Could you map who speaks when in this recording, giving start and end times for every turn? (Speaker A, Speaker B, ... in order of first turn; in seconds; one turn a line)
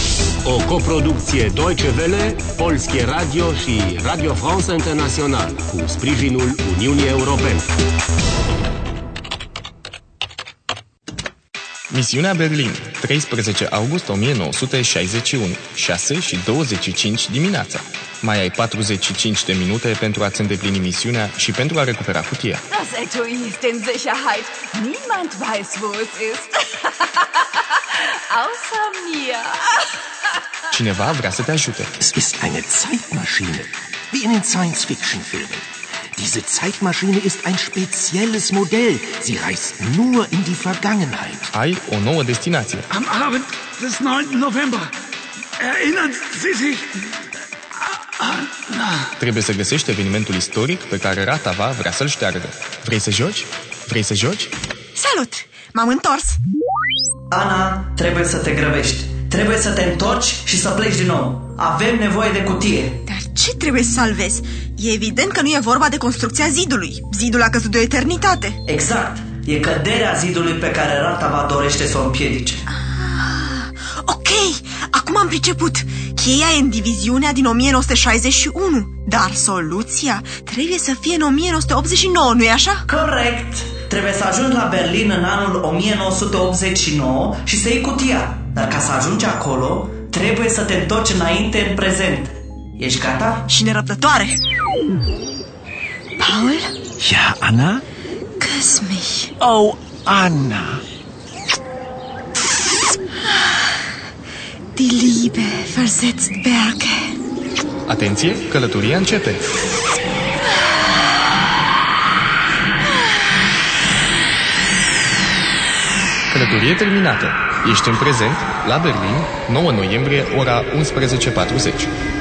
Speaker A: 0.4-7.7
Speaker B: 11.9-22.6
Speaker C: 22.7-29.9
Speaker B: 30.7-31.9
Speaker D: 32.0-41.5
Speaker B: 41.5-42.9
Speaker E: 43.0-44.9
Speaker E: 45.6-46.8
Speaker B: 49.2-54.5
Speaker F: 55.0-56.4
Speaker G: 57.3-63.0
Speaker F: 63.0-68.6
Speaker G: 68.7-72.6
Speaker F: 72.7-82.8
Speaker G: 82.9-93.5
Speaker F: 93.5-94.4
Speaker F: 96.2-96.7
Speaker D: 97.0-97.8
Speaker F: 98.4-99.3
Speaker D: 99.4-100.8
Speaker F: 104.7-107.2
Speaker B: 107.9-109.4
Speaker B: 116.3-121.9